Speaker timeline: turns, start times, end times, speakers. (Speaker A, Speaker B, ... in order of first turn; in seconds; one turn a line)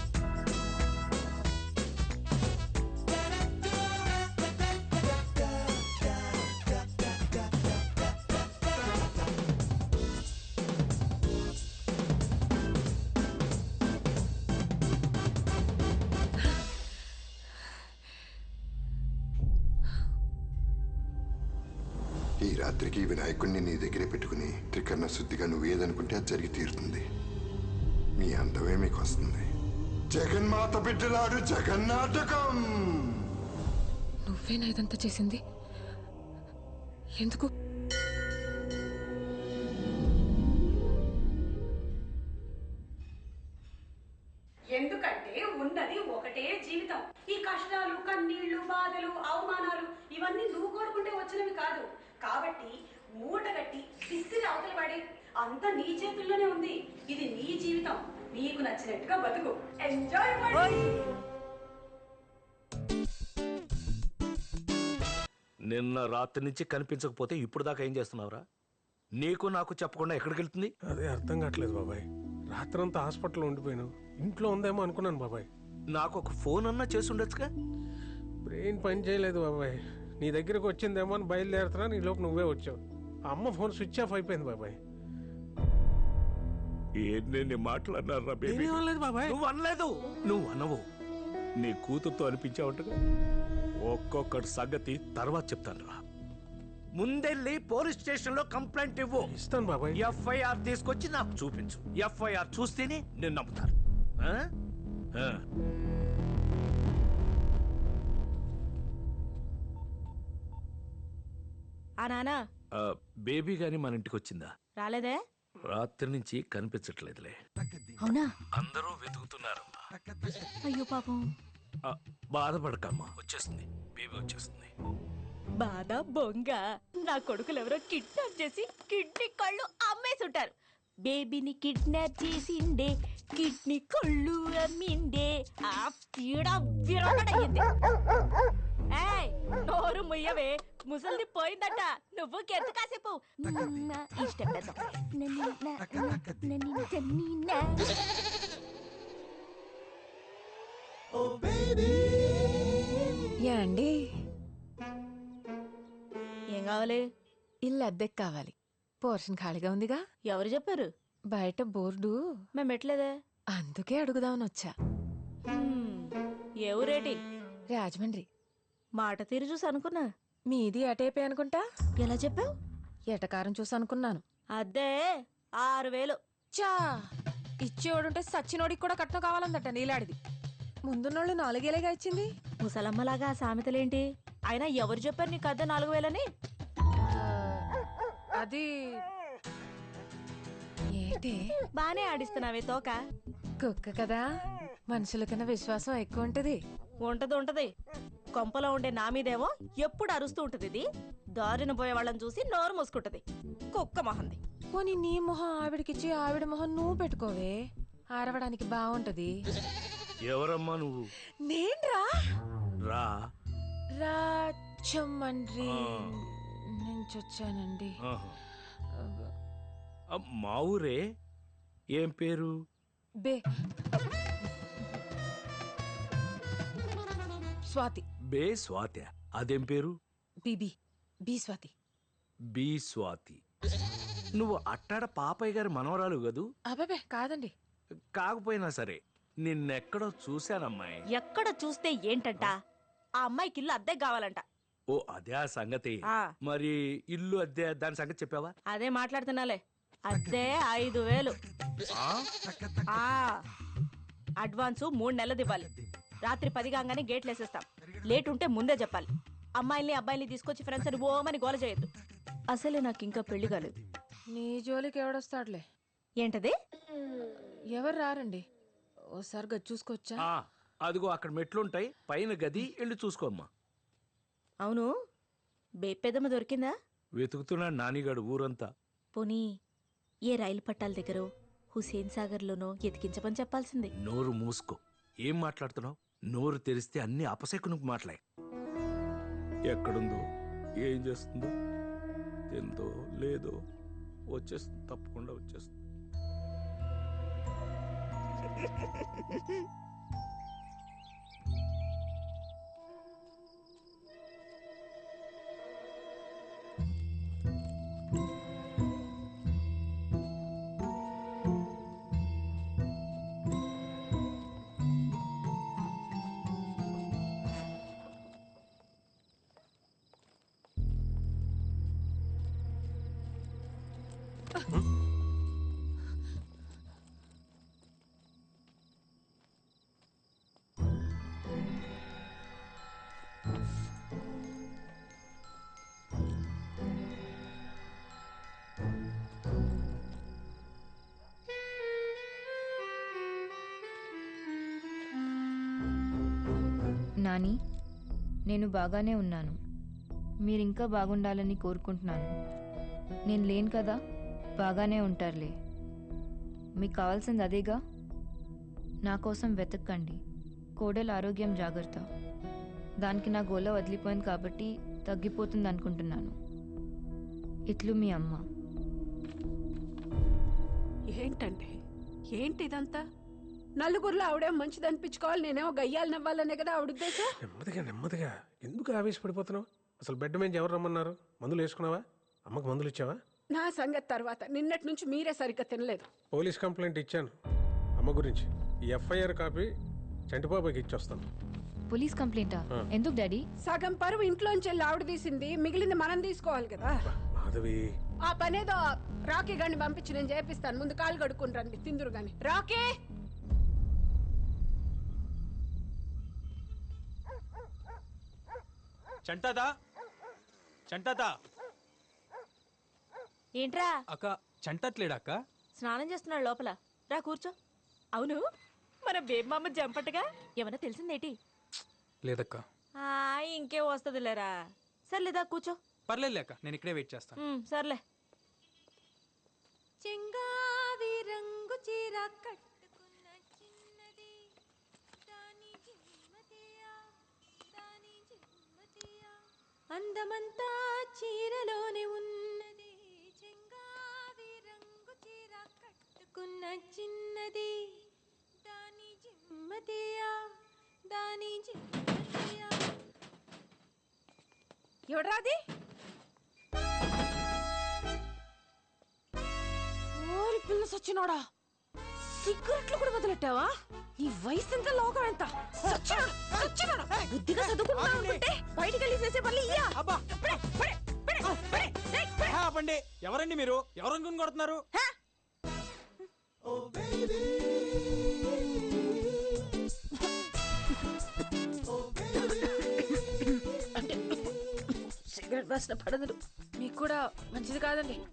Speaker A: 22.4-27.0
Speaker A: 28.2-29.4
Speaker A: 30.1-33.2
Speaker B: 34.3-35.4
Speaker B: 37.2-37.5
Speaker C: 44.7-61.0
Speaker D: 60.5-60.9
Speaker E: 65.7-68.4
Speaker E: 69.2-70.7
Speaker F: 70.9-75.5
Speaker E: 75.9-77.5
Speaker F: 78.5-82.8
Speaker F: 83.3-84.8
Speaker E: 87.0-90.8
Speaker F: 88.4-89.4
Speaker E: 91.6-93.0
Speaker E: 93.8-96.0
Speaker E: 97.0-99.3
Speaker F: 99.2-100.2
Speaker E: 99.9-104.5
Speaker E: 105.1-105.4
Speaker D: 112.0-112.4
Speaker E: 112.7-114.5
Speaker D: 114.8-115.2
Speaker E: 115.7-117.4
Speaker D: 118.0-118.3
Speaker E: 118.5-119.8
Speaker D: 120.7-121.2
Speaker E: 121.8-124.7
Speaker D: 125.6-130.5
Speaker D: 131.1-137.6
Speaker D: 138.9-147.9
Speaker B: 153.5-153.9
Speaker D: 156.5-157.0
Speaker B: 157.7-160.0
Speaker D: 160.2-160.9
Speaker B: 161.3-162.2
Speaker D: 162.5-163.1
Speaker B: 163.5-164.7
Speaker D: 165.5-166.1
Speaker D: 166.7-167.2
Speaker B: 167.7-168.2
Speaker D: 169.0-170.1
Speaker B: 170.5-171.6
Speaker D: 172.0-172.5
Speaker B: 173.1-174.2
Speaker D: 174.6-175.1
Speaker D: 175.6-176.2
Speaker B: 176.5-176.9
Speaker B: 177.6-180.2
Speaker B: 180.9-182.3
Speaker D: 182.6-186.3
Speaker B: 187.0-187.6
Speaker B: 188.4-189.0
Speaker B: 191.0-191.4
Speaker D: 191.8-193.0
Speaker B: 193.6-194.2
Speaker B: 194.9-196.6
Speaker D: 197.0-197.7
Speaker D: 198.3-200.8
Speaker D: 201.4-204.4
Speaker B: 204.7-207.5
Speaker B: 208.1-209.3
Speaker E: 210.3-211.1
Speaker B: 211.4-212.0
Speaker E: 212.9-213.2
Speaker B: 214.0-217.9
Speaker E: 215.6-216.2
Speaker E: 218.0-218.3
Speaker B: 219.0-219.3
Speaker E: 220.1-221.0
Speaker E: 221.9-222.5
Speaker B: 227.7-228.0
Speaker E: 228.3-230.0
Speaker B: 230.4-230.7
Speaker B: 231.2-231.7
Speaker E: 232.5-233.4
Speaker E: 234.4-236.5
Speaker B: 236.7-237.5
Speaker E: 238.2-241.0
Speaker D: 241.1-242.6
Speaker D: 243.2-244.4
Speaker E: 244.9-248.5
Speaker D: 248.7-251.3
Speaker D: 252.9-253.3
Speaker D: 254.4-255.7
Speaker D: 256.2-261.9
Speaker D: 262.5-263.7
Speaker B: 264.3-265.6
Speaker D: 266.2-266.5
Speaker B: 267.7-268.4
Speaker B: 269.2-270.2
Speaker E: 270.2-273.5
Speaker D: 274.6-274.9
Speaker D: 275.8-276.7
Speaker E: 277.2-278.7
Speaker D: 279.1-279.4
Speaker D: 280.3-283.9
Speaker E: 284.0-288.2
Speaker E: 289.7-290.2
Speaker E: 290.8-291.5
Speaker E: 292.5-293.6
Speaker E: 294.3-295.8
Speaker G: 347.2-347.6
Speaker G: 348.5-349.6
Speaker G: 350.5-352.3
Speaker G: 353.3-354.0
Speaker G: 354.6-355.5
Speaker G: 356.8-357.8
Speaker G: 359.1-360.2
Speaker G: 360.8-362.0
Speaker G: 363.0-366.3
Speaker G: 367.7-368.4
Speaker C: 371.1-371.8
Speaker C: 372.3-373.0
Speaker C: 373.8-377.3
Speaker F: 377.4-383.2
Speaker C: 383.5-386.1
Speaker F: 386.3-387.3
Speaker F: 388.0-389.7
Speaker F: 390.3-391.3
Speaker G: 391.9-393.4
Speaker C: 393.6-397.0
Speaker F: 397.4-397.8
Speaker C: 398.2-402.9
Speaker H: 409.3-409.7
Speaker H: 410.9-411.3
Speaker D: 413.6-413.9
Speaker H: 414.1-415.4
Speaker D: 415.8-417.5
Speaker D: 418.1-418.4
Speaker D: 419.0-421.4
Speaker H: 422.2-422.6
Speaker D: 423.0-424.5
Speaker D: 425.1-425.8
Speaker H: 426.1-427.4
Speaker D: 427.4-428.0
Speaker B: 430.0-434.4
Speaker B: 435.2-437.0
Speaker B: 437.7-439.3
Speaker B: 439.9-448.0
Speaker B: 448.6-450.4
Speaker B: 451.1-452.9
Speaker B: 455.1-455.6
Speaker B: 460.2-461.4
Speaker B: 462.4-472.5
Speaker H: 465.9-466.6
Speaker H: 467.5-468.4
Speaker H: 469.9-470.5
Speaker H: 471.6-471.9
Speaker H: 472.4-474.8
Speaker B: 484.0-484.4
Speaker B: 485.1-488.2